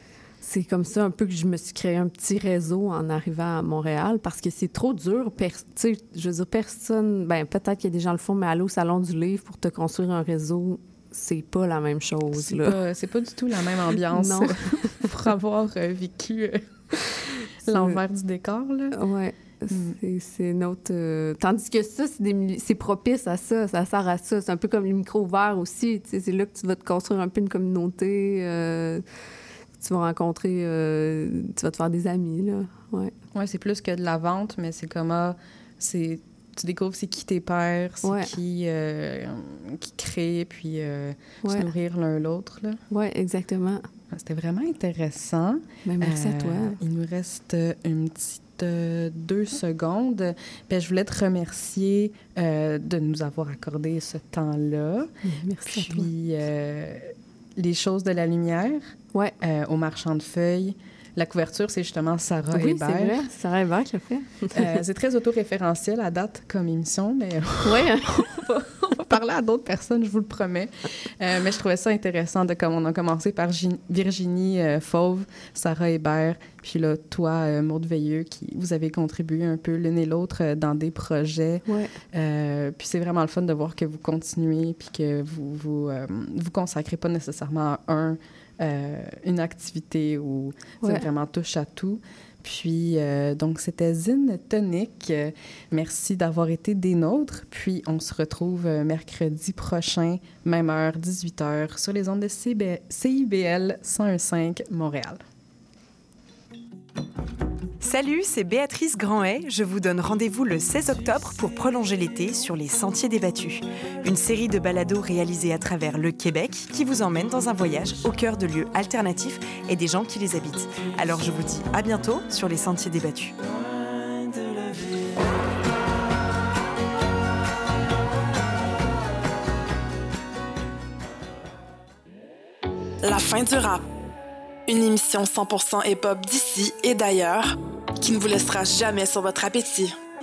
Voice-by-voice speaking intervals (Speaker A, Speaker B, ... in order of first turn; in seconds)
Speaker A: 0.4-12.8, 14.1-15.1, 17.7-18.0, 18.9-29.0, 29.8-33.1, 38.0-38.3, 42.9-43.9, 45.9-46.8, 55.2-56.1, 62.5-64.7, 67.6-68.4, 81.7-81.9, 90.8-91.1
Speaker B: 12.3-19.0, 19.7-20.0, 33.3-42.8, 44.1-55.1, 55.6-58.9, 59.4-63.2, 64.5-105.2
Speaker C: 107.8-123.3
Speaker D: 133.0-133.8, 134.7-139.9